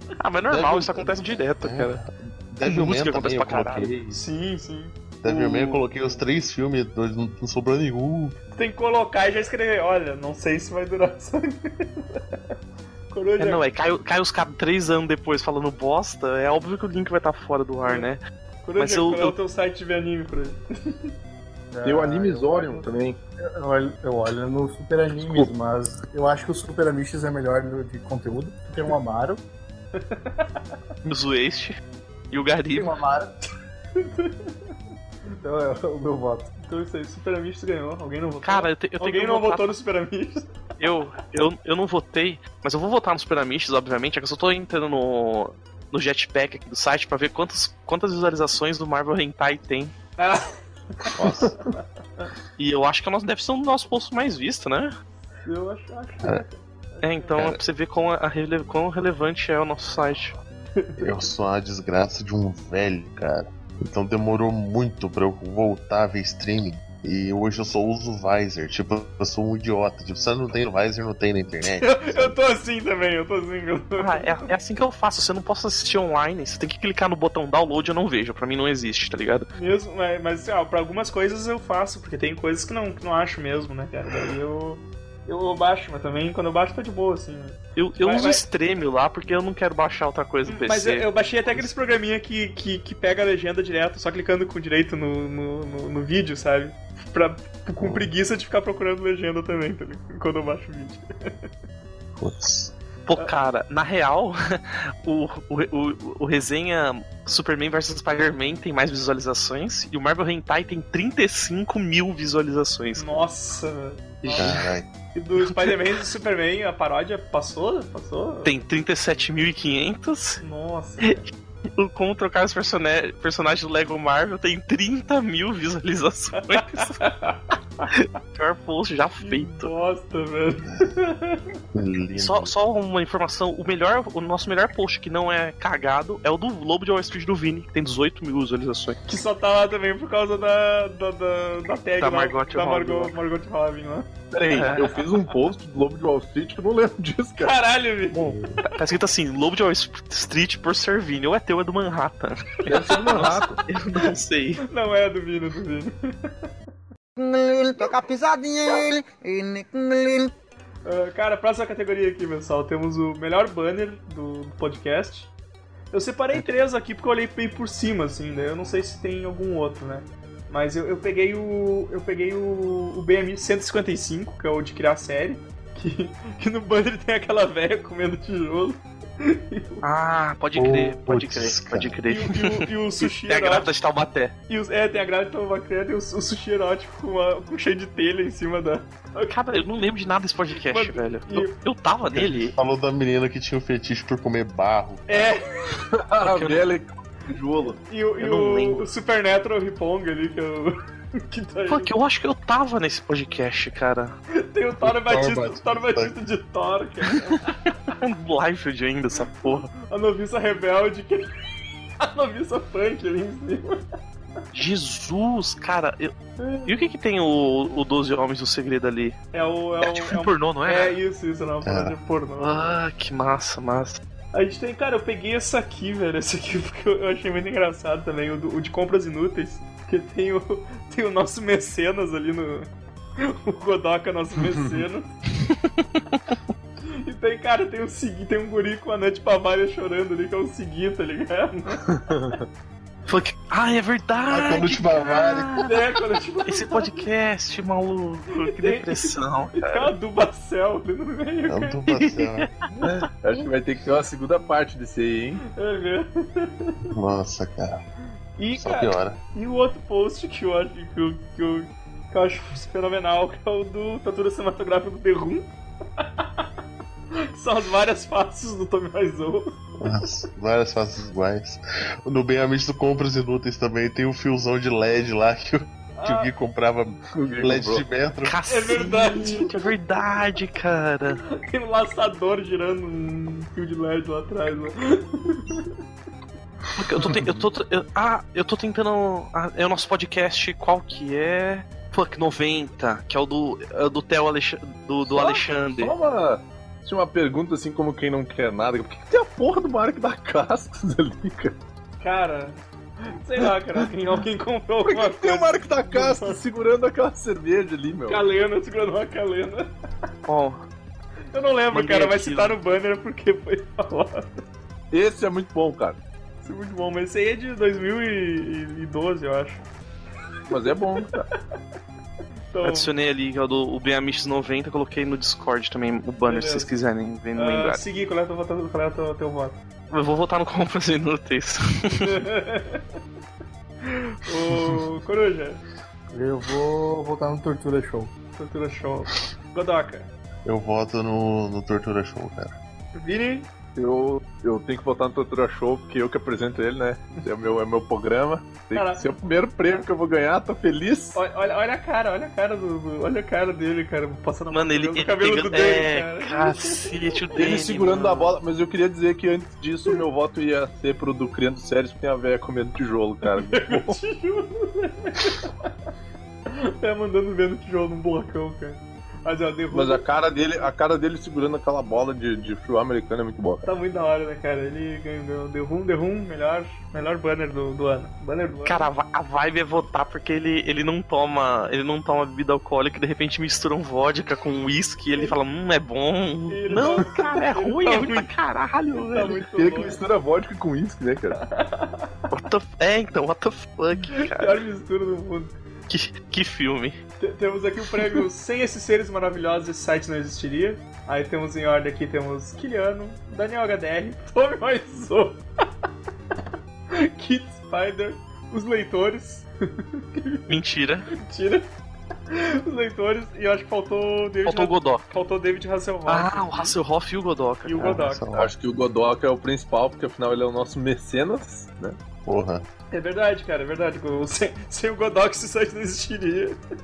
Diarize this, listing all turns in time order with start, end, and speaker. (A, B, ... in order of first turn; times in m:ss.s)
0:00.2-0:02.0 A
0:00.5-0:04.2 B
0:02.6-0:03.9 A
0:04.1-0:06.2 C
0:05.2-0:08.4 B
0:08.5-0:12.2 C
0:13.1-0:13.6 C
0:13.4-0:18.2 A
0:18.6-0:21.1 C
0:18.8-0:19.3 A
0:21.7-0:22.9 D
0:21.8-0:23.2 E
0:23.4-0:29.4 D
0:30.0-0:30.6 C
0:31.0-0:31.8 A
0:32.3-0:33.0 A
0:32.7-0:33.3 D
0:34.0-0:34.5 C
0:35.3-0:36.5 D
0:36.6-0:40.5 C
0:38.4-0:39.7 A
0:40.8-0:49.9 A
0:50.2-0:52.3 C
0:51.2-0:51.6 B
0:52.6-0:54.9 A
0:55.4-0:57.5 C
0:57.0-1:00.4 A
1:00.8-1:01.3 C
1:01.0-1:12.4 B
1:11.6-1:14.5 C
1:14.0-1:19.5 A
1:19.5-1:28.4 C
1:27.8-1:31.7 A
1:30.5-1:41.0 C
1:37.8-1:38.1 B
1:42.2-1:42.7 B
1:43.0-1:53.2 A
1:53.0-1:58.5 C
1:54.2-1:54.7 A
1:54.3-1:54.9 B
1:55.4-1:55.8 A
1:58.4-2:00.4 A
2:00.4-2:01.2 C
2:01.8-2:07.0 A
2:06.5-2:07.9 C
2:07.9-2:09.7 A
2:09.2-2:11.6 C
2:11.7-2:12.5 B
2:12.2-2:19.0 A
2:19.1-2:24.1 C
2:22.0-2:23.2 A
2:24.3-2:27.6 E
2:24.5-2:25.0 A
2:27.4-2:28.4 C
2:28.2-2:28.6 B
2:28.7-2:34.6 A
2:32.6-2:33.6 E
2:34.6-2:35.9 C
2:37.2-2:40.3 F
2:40.8-2:45.3 C
2:45.9-2:59.8 C
2:59.8-3:04.3 A
3:00.5-3:02.0 B
3:02.1-3:03.7 C
3:04.5-3:09.4 C
3:09.3-3:12.5 A
3:10.6-3:11.5 C
3:12.1-3:15.3 B
3:15.1-3:15.8 C
3:15.9-3:17.8 E
3:16.2-3:16.6 A
3:17.8-3:21.9 C
3:18.2-3:18.8 A
3:21.7-3:24.1 A
3:24.3-3:27.9 C
3:24.8-3:26.1 B
3:28.0-3:29.7 A
3:29.4-3:33.8 C
3:34.5-3:36.1 A
3:36.4-3:36.8 C
3:36.6-3:39.2 A
3:39.3-3:42.7 C
3:39.8-3:41.0 A
3:41.6-3:42.0 B
3:42.4-3:44.0 A
3:44.3-3:55.2 C
3:57.0-4:01.9 C
4:01.9-4:02.4 E
4:03.1-4:05.8 A
4:04.3-4:05.7 B
4:05.6-4:07.0 C
4:06.4-4:09.9 A
4:08.3-4:11.8 C
4:11.4-4:12.5 B
4:11.9-4:12.5 A
4:12.8-4:15.4 E
4:15.5-4:16.8 C
4:16.9-4:17.8 B
4:18.4-4:26.4 C
4:18.5-4:19.2 B
4:27.3-4:29.6 C
4:29.8-4:38.8 B
4:36.0-4:36.3 C
4:37.1-4:37.8 E
4:38.2-4:41.2 A
4:38.5-4:39.5 C
4:41.3-4:45.7 C
4:46.8-4:55.9 A
4:55.0-5:01.6 E
5:02.0-5:06.4 C
5:04.9-5:08.3 E
5:08.1-5:09.7 C
5:10.2-5:10.6 A
5:11.3-5:14.3 C
5:11.7-5:12.6 A
5:14.9-5:16.0 E
5:16.4-5:19.6 C
5:20.5-5:21.2 E
5:22.5-5:22.9 C
5:22.6-5:27.8 A
5:26.2-5:26.7 C
5:27.3-5:29.6 C
5:29.9-5:32.2 A
5:32.0-5:32.8 C
5:33.8-5:35.6 C
5:36.1-5:38.1 D
5:38.4-5:40.1 C
5:40.4-5:42.5 B
5:43.0-5:43.5 C
5:43.7-5:51.2 E
5:48.7-5:49.1 C
5:51.1-5:57.3 C
5:54.5-5:58.4 A
5:57.4-6:04.0 E
6:03.4-6:05.7 C
6:06.5-6:10.0 C
6:09.7-6:13.7 E
6:13.6-6:18.9 C
6:18.6-6:29.4 A
6:26.5-6:28.3 C
6:29.0-6:30.0 C
6:29.5-6:31.4 E
6:31.4-6:32.2 C
6:32.3-6:34.6 A
6:34.1-6:35.6 C
6:35.9-6:37.0 A
6:37.2-6:45.4 C
6:38.0-6:38.2 A
6:46.9-6:50.5 C
6:50.5-6:51.1 A
6:51.1-6:51.7 C
6:52.3-6:56.7 C
6:54.4-6:55.0 A
6:56.1-6:58.0 A
6:57.6-6:58.2 C
6:57.8-6:58.5 B
6:58.3-7:02.0 E
7:02.2-7:02.6 B
7:02.9-7:06.6 C